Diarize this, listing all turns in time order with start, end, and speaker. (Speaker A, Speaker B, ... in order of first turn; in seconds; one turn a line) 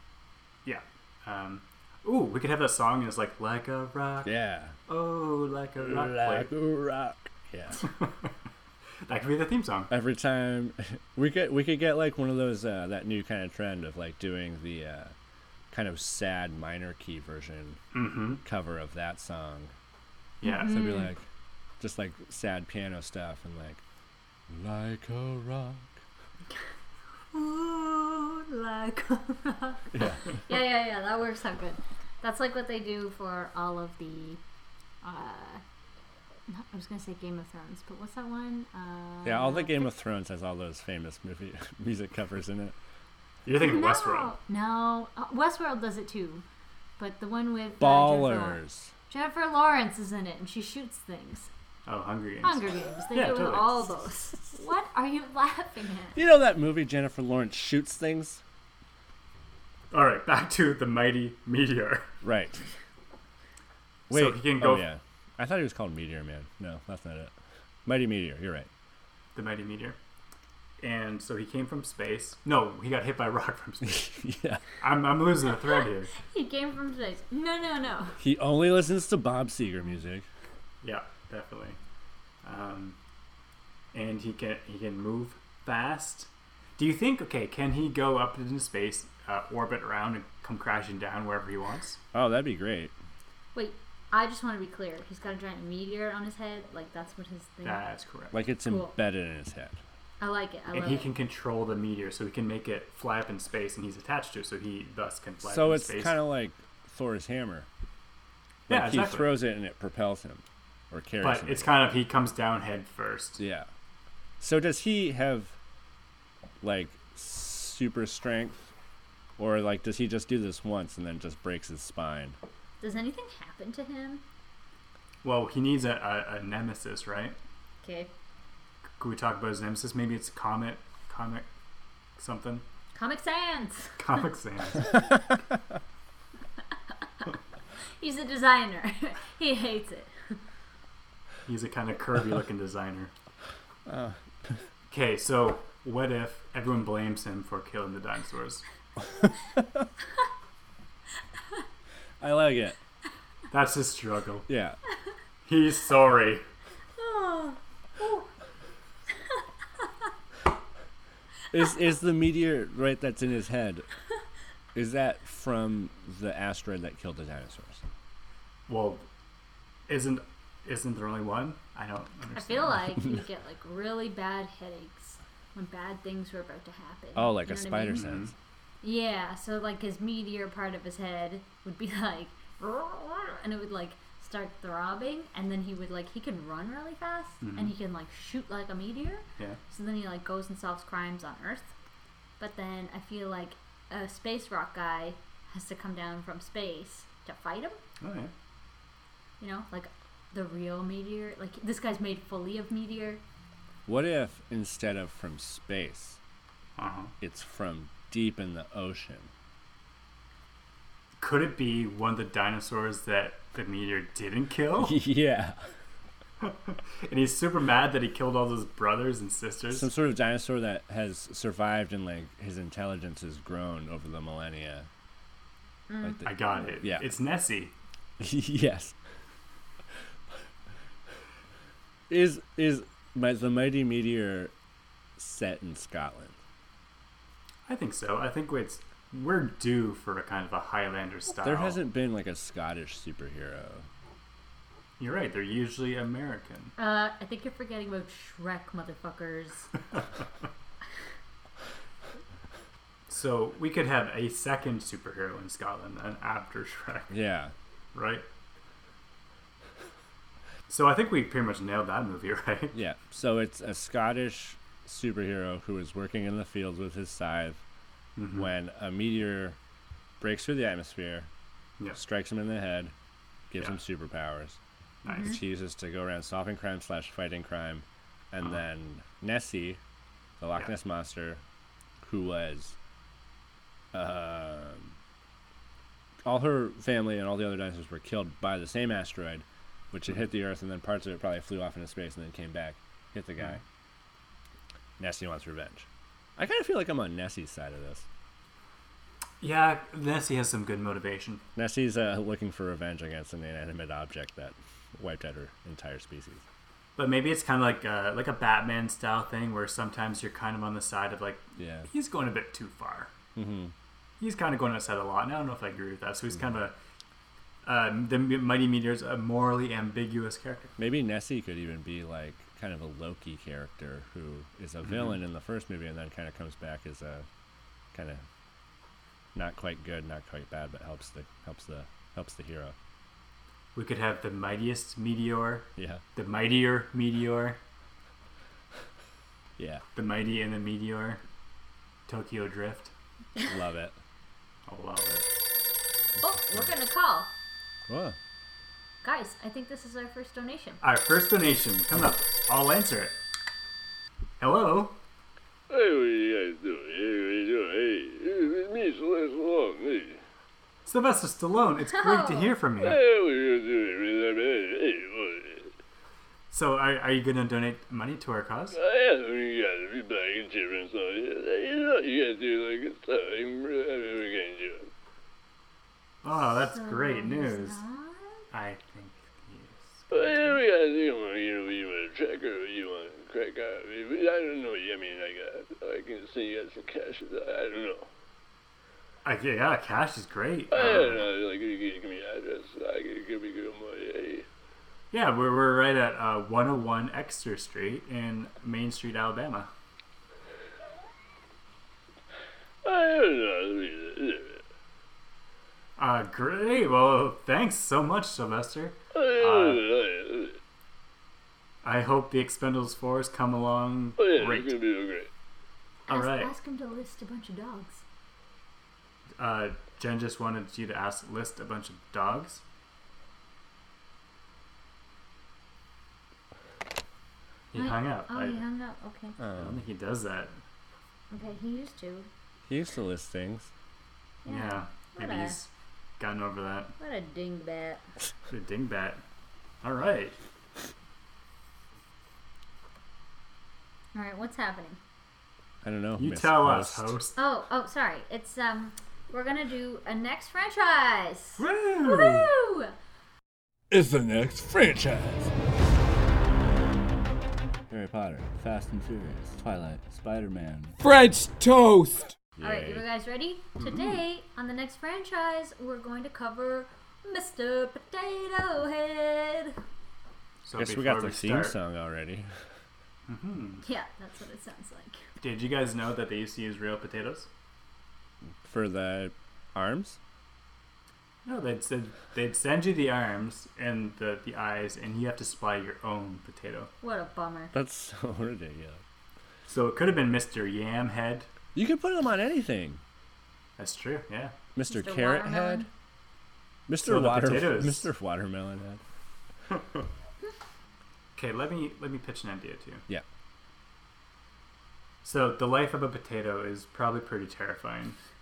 Speaker A: 0.6-4.3
Speaker B: 4.2-4.8
Speaker A: 4.9-6.5
Speaker B: 5.8-7.8
Speaker A: 7.8-8.1
Speaker A: 9.1-9.9
Speaker B: 9.9-15.1
Speaker B: 15.7-17.8
Speaker A: 17.9-18.4
Speaker B: 18.4-19.7
Speaker A: 20.4-20.8
Speaker C: 20.4-21.1
Speaker B: 20.6-21.2
Speaker B: 21.8-23.8
Speaker B: 24.5-26.0
Speaker C: 27.3-29.9
Speaker B: 29.9-30.2
Speaker C: 30.4-34.4
Speaker C: 35.0-35.6
Speaker C: 36.5-39.9
Speaker B: 39.2-42.7
Speaker A: 43.5-44.3
Speaker C: 43.6-46.4
Speaker C: 47.0-51.5
Speaker B: 47.8-48.9
Speaker A: 51.9-53.8
Speaker C: 52.4-56.2
Speaker B: 56.1-58.4
Speaker A: 59.9-62.1
Speaker B: 62.2-62.6
Speaker A: 64.1-64.9
Speaker B: 64.1-67.3
Speaker B: 67.8-68.7
Speaker A: 69.3-70.0
Speaker A: 70.8-74.2
Speaker B: 73.8-74.6
Speaker A: 74.8-76.1
Speaker C: 76.1-78.2
Speaker B: 78.2-80.3
Speaker A: 80.8-81.8
Speaker A: 82.4-83.0
Speaker A: 83.9-92.0
Speaker B: 92.1-92.9
Speaker C: 93.5-97.8
Speaker A: 97.6-98.4
Speaker B: 98.3-99.8
Speaker C: 98.6-98.9
Speaker C: 100.2-101.1
Speaker A: 100.7-106.2
Speaker B: 105.4-107.7
Speaker A: 108.7-109.3
Speaker B: 108.7-111.8
Speaker A: 111.2-113.4
Speaker B: 113.4-113.7
Speaker B: 114.4-115.5
Speaker B: 116.6-118.7
Speaker B: 119.4-122.4
Speaker C: 122.8-124.2
Speaker A: 125.2-127.4
Speaker C: 127.8-128.1
Speaker A: 129.0-131.5
Speaker A: 132.2-132.6
Speaker C: 132.9-134.0
Speaker A: 134.0-135.0
Speaker C: 138.0-140.4
Speaker A: 141.4-143.1
Speaker B: 143.8-144.2
Speaker A: 144.9-148.6
Speaker B: 152.2-152.8
Speaker A: 153.5-154.5
Speaker B: 154.5-154.8
Speaker A: 155.4-156.4
Speaker C: 157.0-158.3
Speaker B: 161.5-163.8
Speaker B: 164.7-167.8
Speaker A: 168.7-169.1
Speaker A: 169.9-173.0
Speaker C: 172.3-178.1
Speaker B: 177.1-178.3
Speaker A: 177.9-178.3
Speaker C: 178.8-191.7
Speaker A: 187.4-187.7
Speaker C: 192.4-197.8
Speaker A: 198.0-198.3
Speaker C: 199.4-203.2
Speaker B: 203.9-206.2
Speaker A: 206.8-207.1
Speaker B: 207.2-209.3
Speaker A: 211.2-215.0
Speaker B: 214.8-215.6
Speaker A: 216.4-219.9
Speaker B: 219.7-224.9
Speaker C: 225.9-226.5
Speaker B: 226.0-227.1
Speaker A: 226.2-227.7
Speaker B: 228.2-229.0
Speaker B: 232.1-234.5
Speaker B: 235.2-236.4
Speaker A: 237.7-241.8
Speaker B: 241.4-243.9
Speaker A: 245.0-246.7
Speaker C: 246.8-249.7
Speaker A: 253.1-257.1
Speaker B: 257.1-257.5
Speaker A: 257.9-258.2
Speaker A: 260.7-262.8
Speaker B: 262.7-267.6
Speaker A: 268.2-268.5
Speaker B: 268.3-269.6
Speaker B: 270.2-271.3
Speaker B: 271.9-272.9
Speaker B: 273.5-274.6
Speaker A: 275.0-275.4
Speaker C: 275.1-275.4
Speaker B: 275.2-279.8
Speaker B: 280.4-281.4
Speaker B: 282.0-282.8
Speaker B: 283.9-284.9
Speaker B: 286.2-293.6
Speaker B: 295.0-298.1
Speaker A: 299.4-301.4
Speaker B: 301.6-306.4
Speaker A: 306.9-313.1
Speaker B: 311.6-311.9
Speaker B: 313.4-313.7
Speaker A: 314.2-316.7
Speaker A: 317.6-320.7
Speaker B: 320.8-327.2
Speaker A: 324.9-325.1
Speaker B: 327.9-328.2
Speaker B: 329.3-332.8
Speaker A: 333.7-337.6
Speaker B: 335.8-336.0
Speaker B: 339.6-339.8
Speaker A: 339.9-341.2
Speaker A: 342.1-342.9
Speaker B: 343.5-344.0
Speaker A: 344.7-345.3
Speaker C: 346.2-347.3
Speaker B: 346.2-346.7
Speaker B: 347.9-348.2
Speaker C: 349.0-350.8
Speaker A: 350.8-353.2
Speaker A: 354.4-355.0
Speaker D: 355.7-360.2
Speaker A: 360.9-363.0
Speaker C: 361.9-362.5
Speaker D: 362.8-365.7
Speaker A: 366.5-368.8
Speaker D: 368.7-374.9
Speaker A: 376.2-377.8
Speaker C: 376.4-378.4
Speaker A: 378.5-380.6
Speaker D: 380.1-388.1
Speaker A: 389.2-391.2
Speaker D: 390.7-394.4
Speaker A: 395.1-399.7
Speaker D: 402.8-404.6
Speaker A: 406.0-409.8
Speaker D: 409.1-410.6
Speaker A: 411.8-414.7
Speaker D: 414.2-415.3
Speaker A: 416.1-416.5
Speaker C: 416.1-418.0
Speaker A: 419.4-422.6
Speaker A: 427.7-428.6
Speaker C: 427.7-429.4
Speaker B: 429.4-429.8
Speaker A: 429.6-430.6
Speaker C: 431.3-432.3
Speaker B: 432.7-433.7
Speaker C: 434.4-435.6
Speaker A: 434.4-436.9
Speaker C: 437.0-438.0
Speaker A: 438.5-439.2
Speaker A: 439.8-440.4
Speaker C: 444.1-445.0
Speaker B: 445.8-447.2
Speaker A: 446.2-447.4
Speaker C: 447.4-452.9
Speaker A: 451.6-452.5
Speaker B: 453.9-455.5
Speaker E: 453.9-455.1
Speaker B: 457.9-460.7
Speaker E: 459.7-461.9
Speaker B: 462.6-463.0
Speaker C: 462.6-469.8
Speaker A: 463.8-464.2
Speaker A: 470.6-471.8
Speaker B: 470.8-472.5
Speaker A: 473.3-473.8
Speaker C: 473.8-475.2
Speaker A: 475.4-477.5
Speaker B: 478.6-480.2
Speaker A: 481.4-486.9
Speaker C: 487.0-487.7
Speaker B: 487.7-489.0
Speaker A: 489.7-491.5
Speaker B: 491.7-493.0
Speaker A: 493.8-494.5
Speaker B: 494.7-495.9
Speaker C: 494.9-495.9
Speaker B: 496.9-499.0
Speaker A: 497.0-498.1
Speaker A: 501.4-503.0
Speaker A: 505.2-508.2